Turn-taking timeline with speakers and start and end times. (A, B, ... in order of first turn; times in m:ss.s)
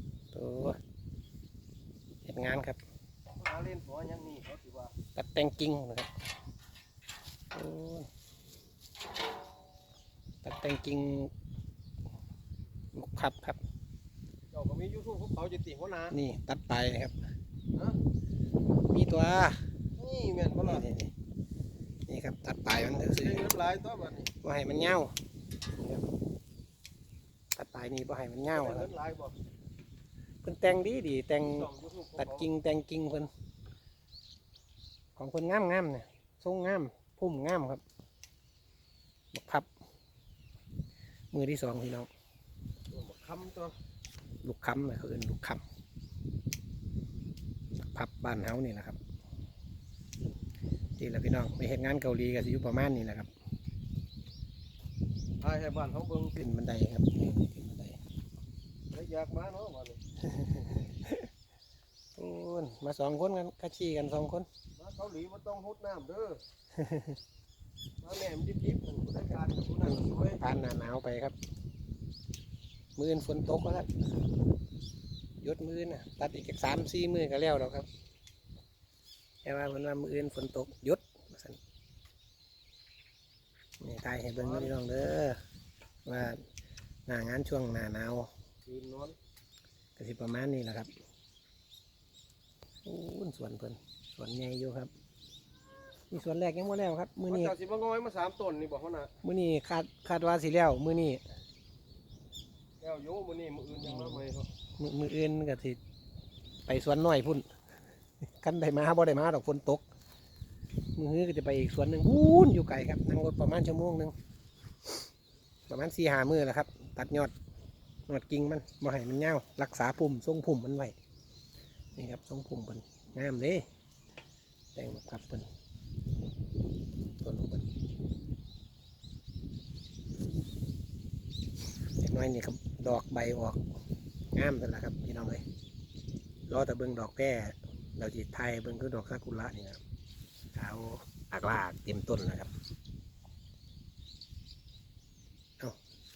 0:00.3-0:00.8 A
0:02.2-0:02.8 A
0:03.4-0:04.9 B
0:05.2-0:06.1 A
0:07.5-0:08.1 A
0:10.4-0:11.3 A
0:13.0-0:13.6 A
0:14.5-0:16.2 B
0:16.1-0:17.2 A
0:18.9-0:19.6 A
0:20.0-0:20.9 B
0:20.6-0:21.1 A
0:22.1-0:23.5 A
0:23.1-0:24.3 B
0:24.4-0:25.1 A
0:25.8-0:26.0 A
0:27.6-0:28.9 A
0:28.5-0:29.3 B
0:30.4-0:33.3 A
0:31.5-0:32.5 B
0:35.2-0:37.8 A
0:39.3-0:39.7 A
0:41.3-0:42.1 A
0:42.9-0:43.7 B
0:44.4-0:45.6 A
0:47.8-0:49.0 A
0:51.0-0:53.3 A
0:55.4-0:56.4 B
0:56.4-0:58.0 A
0:58.9-1:00.0 B
1:00.2-1:01.3 A
1:02.2-1:04.5 A
1:04.8-1:06.4 B
1:06.8-1:07.2 A
1:08.0-1:10.4 B
1:09.8-1:11.4 A
1:13.0-1:14.0 A
1:15.4-1:17.9 A
1:19.4-1:21.6 A
1:23.8-1:25.4 A
1:24.4-1:24.8 B
1:26.0-1:26.4 A
1:27.1-1:28.3 A
1:28.7-1:29.2 B
1:30.0-1:30.9 A
1:32.8-1:34.9 A
1:36.1-1:37.6 A
1:37.3-1:39.1 B
1:39.2-1:41.2 A
1:42.8-1:44.5 B
1:43.8-1:45.8 A
1:46.7-1:47.4 A
1:48.4-1:49.8 A
1:51.0-1:54.1 A
1:55.7-1:57.3 A
1:58.1-2:01.0 A
2:02.0-2:03.6 A
2:04.8-2:05.5 A
2:07.2-2:07.7 A
2:12.0-2:13.6 A
2:14.3-2:15.4 A
2:16.5-2:19.8 A
2:20.5-2:22.5 A